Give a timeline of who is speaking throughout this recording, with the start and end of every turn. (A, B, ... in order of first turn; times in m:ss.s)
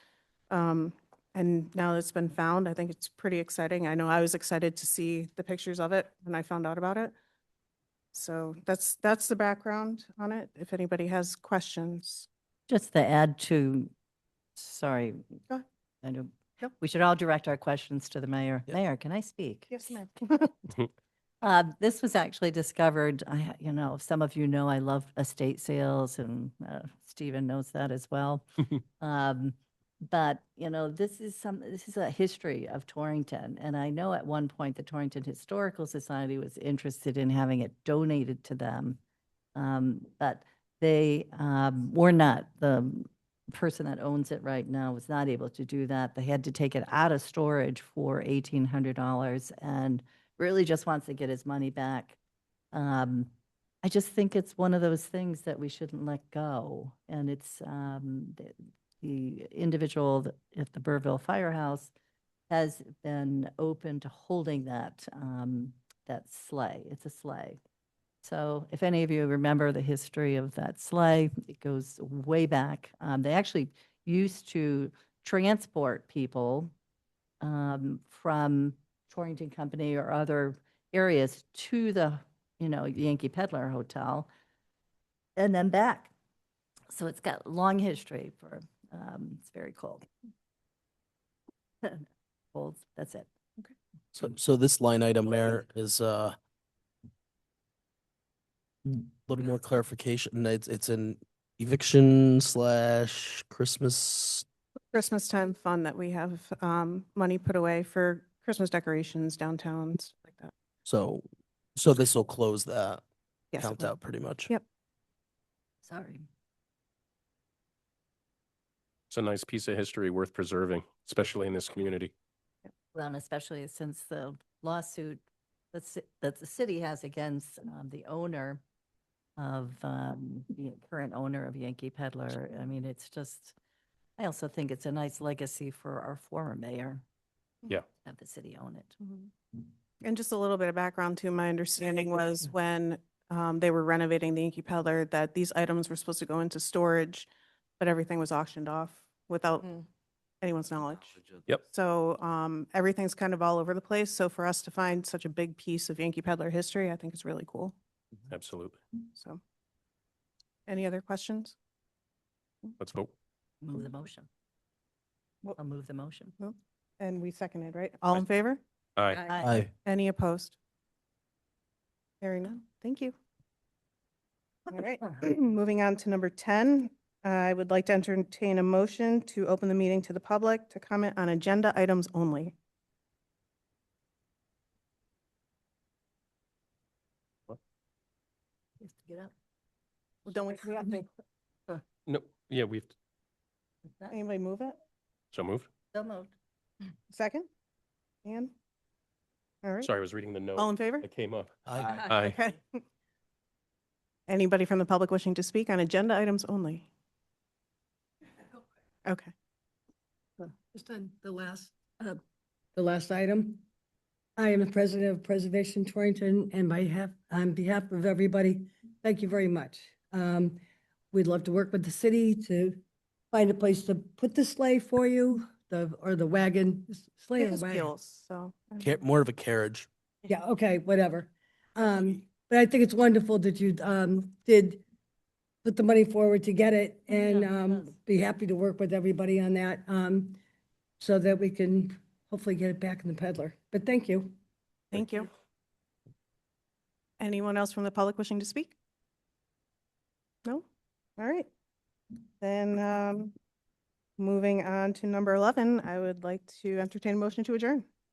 0:00.5-0:07.1 A
0:08.1-0:12.3 A
0:12.7-0:13.9 B
0:14.6-0:15.2 B
0:16.0-0:20.0 B
0:19.7-0:20.5 A
0:21.4-0:39.0 B
0:39.6-0:52.2 B
0:52.7-0:53.3 B
0:53.8-1:01.9 B
1:02.5-1:07.6 B
1:08.2-1:16.7 B
1:17.4-1:24.3 B
1:25.4-1:26.1 B
1:26.9-1:30.1 B
1:31.8-1:33.3 B
1:34.1-1:36.4 C
1:38.9-1:44.4 C
1:44.9-1:50.5 A
1:50.8-1:51.2 C
1:51.8-1:53.0 C
1:53.5-1:53.9 A
1:53.6-1:54.5 C
1:55.8-1:56.2 B
1:59.1-2:02.1 D
2:02.9-2:05.2 B
2:05.7-2:08.6 B
2:09.4-2:13.6 B
2:14.2-2:17.0 B
2:18.0-2:19.0 B
2:20.0-2:29.8 A
2:30.4-2:37.8 A
2:38.3-2:38.8 D
2:39.1-2:39.4 A
2:40.7-2:41.6 A
2:42.8-2:43.1 D
2:43.6-2:44.3 B
2:45.6-2:46.4 B
2:46.4-2:48.6 A
2:49.0-2:49.2 D
2:49.2-2:49.6 B
2:49.4-2:49.7 C
2:49.8-2:50.6 A
2:52.2-2:53.1 A
2:54.7-3:02.6 A
3:08.8-3:09.3 B
3:10.3-3:11.1 A
3:12.1-3:12.9 D
3:14.1-3:14.8 A
3:15.3-3:15.7 D
3:15.9-3:16.3 B
3:17.1-3:17.5 A
3:18.2-3:18.5 A
3:19.6-3:19.9 A
3:19.8-3:21.5 D
3:20.6-3:21.1 A
3:21.7-3:22.0 C
3:22.1-3:22.4 D
3:22.1-3:22.8 A
3:24.3-3:26.9 A
3:29.1-3:29.3 A
3:30.4-3:32.2 E
3:32.8-3:33.6 E
3:34.4-3:40.6 E
3:41.1-3:47.9 E
3:47.4-3:49.0 A
3:48.8-3:49.9 C
3:50.3-3:54.8 E
3:55.6-4:00.4 E
3:57.1-3:57.9 B
4:01.0-4:04.3 E
4:04.9-4:05.3 A
4:07.2-4:08.8 A
4:11.2-4:11.5 A
4:12.4-4:13.3 A
4:14.2-4:17.9 A